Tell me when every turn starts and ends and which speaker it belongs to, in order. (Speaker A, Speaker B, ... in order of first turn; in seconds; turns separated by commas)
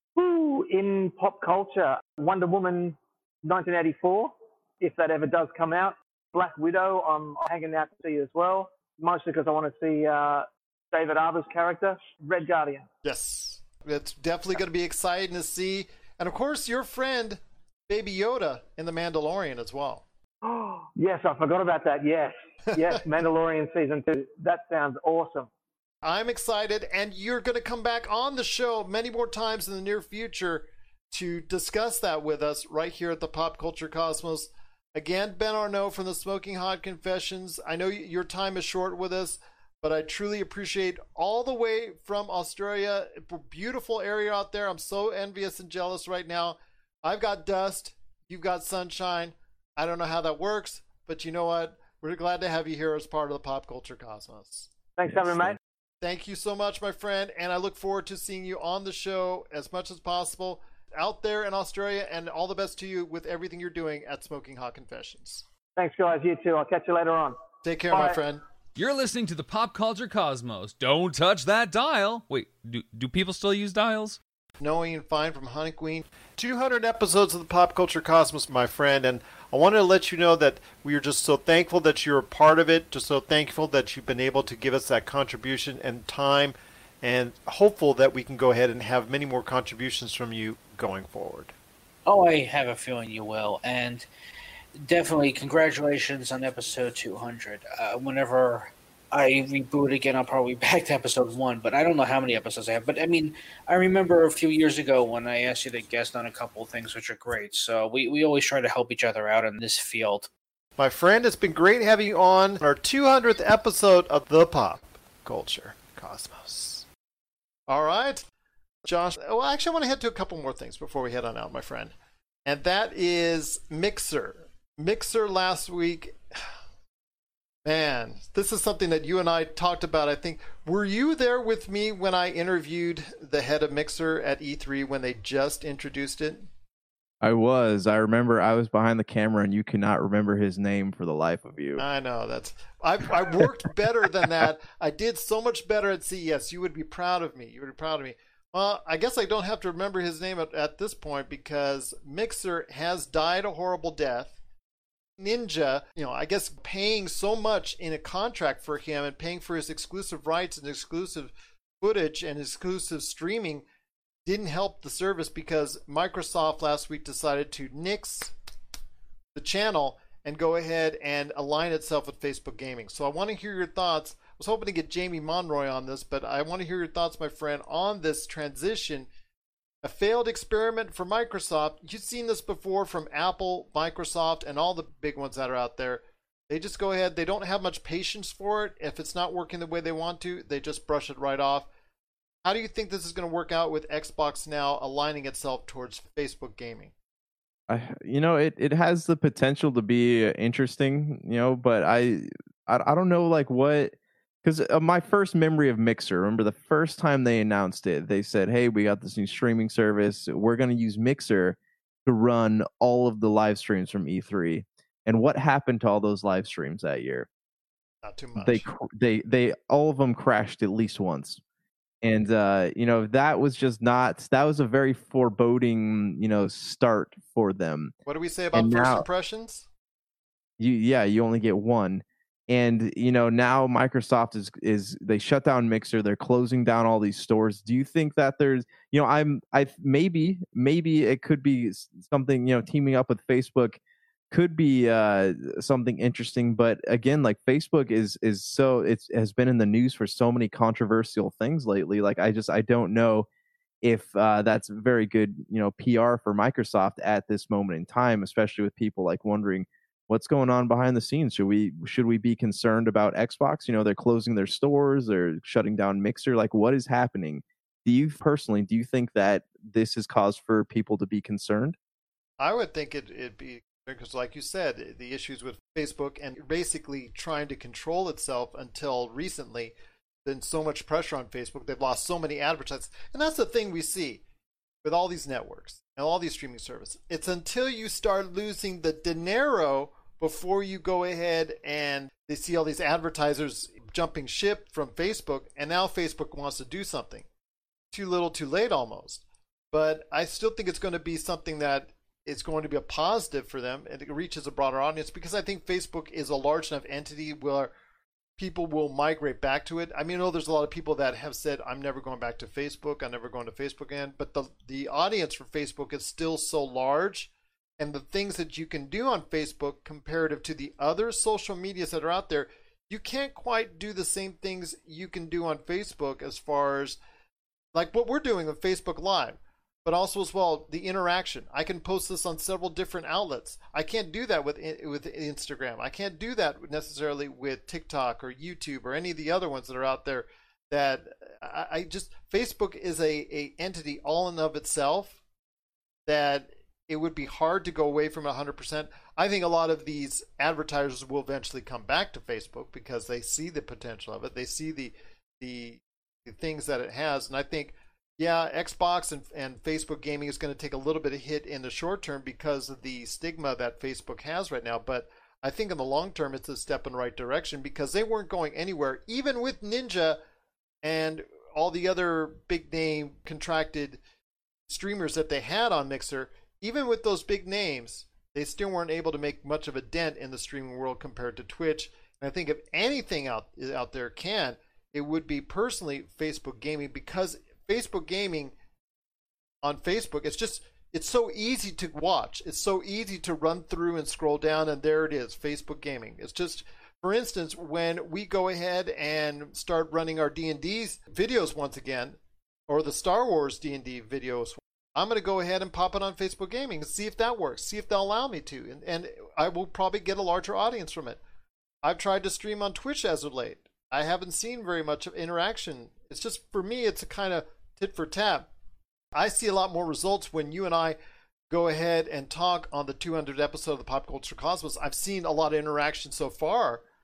Speaker A: 0.1-12.9, Speaker B: 13.0-20.0, Speaker A: 20.4-25.5, Speaker B: 26.0-54.7, Speaker A: 55.0-55.6, Speaker B: 56.0-65.4, Speaker A: 65.8-67.4, Speaker B: 67.6-68.4, Speaker A: 67.9-68.2, Speaker C: 68.8-74.2, Speaker B: 74.6-91.5, Speaker D: 92.0-94.1, Speaker D: 94.7-110.3, Speaker B: 110.8-116.8, Speaker B: 117.7-118.2, Speaker B: 118.8-121.9, Speaker B: 122.5-126.2, Speaker B: 127.6-136.5, Speaker E: 137.2-141.8, Speaker B: 141.8-154.4, Speaker B: 155.2-163.6, Speaker B: 164.2-168.3, Speaker B: 169.3-179.1, Speaker B: 179.8-191.7, Speaker B: 192.4-196.9, Speaker E: 197.7-217.3, Speaker B: 218.0-218.7, Speaker E: 218.4-221.4, Speaker E: 222.0-227.9, Speaker B: 228.1-229.7, Speaker E: 228.5-229.1, Speaker E: 230.6-243.8, Speaker E: 244.3-253.3, Speaker E: 253.8-271.8, Speaker B: 272.4-284.2, Speaker B: 284.8-297.3, Speaker B: 297.9-307.7, Speaker B: 308.4-327.0, Speaker B: 327.7-345.2, Speaker B: 346.1-370.2, Speaker B: 370.8-374.0, Speaker B: 374.7-388.5, Speaker B: 389.6-411.2, Speaker B: 411.8-418.5, Speaker B: 419.1-421.0, Speaker B: 421.5-426.8